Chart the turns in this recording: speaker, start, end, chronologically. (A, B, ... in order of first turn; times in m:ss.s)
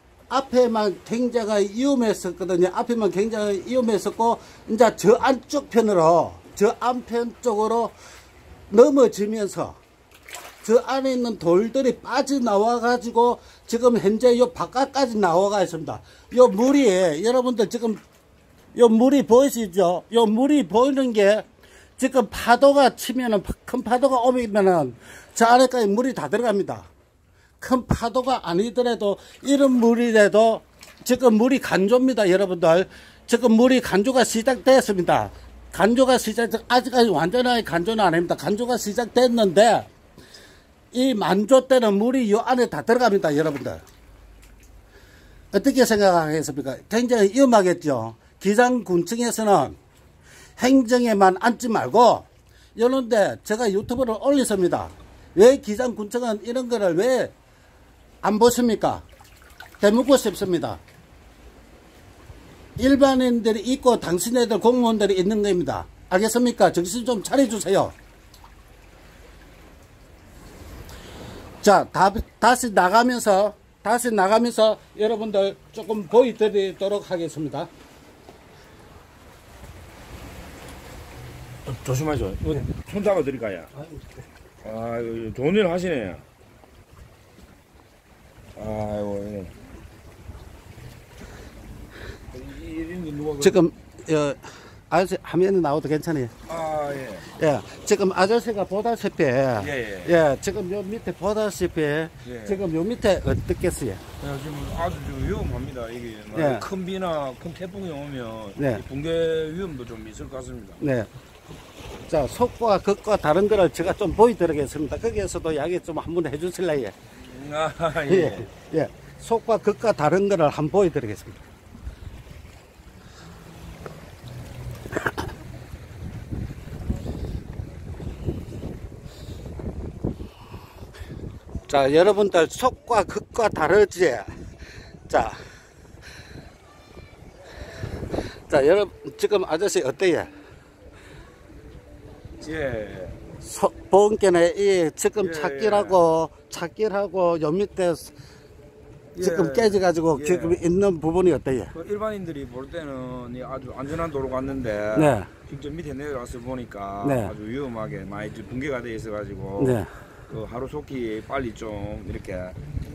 0:00.3-0:07.9 A
0:08.7-0:09.8 A
0:10.6-0:18.0 A
0:18.8-0:21.4 A
0:22.0-0:26.9 A
0:27.6-0:39.9 A
0:40.9-0:43.8 A
0:45.5-0:49.8 A
0:50.6-0:57.3 A
0:58.2-0:59.0 A
0:59.8-1:00.8 A
1:02.8-1:07.9 A
1:11.6-1:17.7 A
1:21.7-1:23.7 B
1:24.6-1:26.2 B
1:28.6-1:29.5 B
1:32.3-1:33.6 B
1:33.4-1:36.3 A
1:36.5-1:37.3 B
1:37.3-1:44.0 A
1:39.6-1:40.2 B
1:42.2-1:42.6 B
1:44.2-1:50.8 B
1:46.3-1:46.6 A
1:48.6-1:48.8 A
1:50.8-1:51.1 A
1:52.1-1:56.9 A
1:57.2-1:58.5 B
1:58.1-2:01.4 A
2:11.7-2:14.3 A
2:15.1-2:15.4 A
2:18.5-2:20.3 A
2:22.4-2:23.2 B
2:23.4-2:28.1 A
2:25.2-2:26.0 B
2:29.1-2:30.6 B
2:29.2-2:31.7 A
2:31.7-2:42.6 B
2:34.9-2:35.3 A
2:37.0-2:37.3 A
2:39.6-2:39.9 A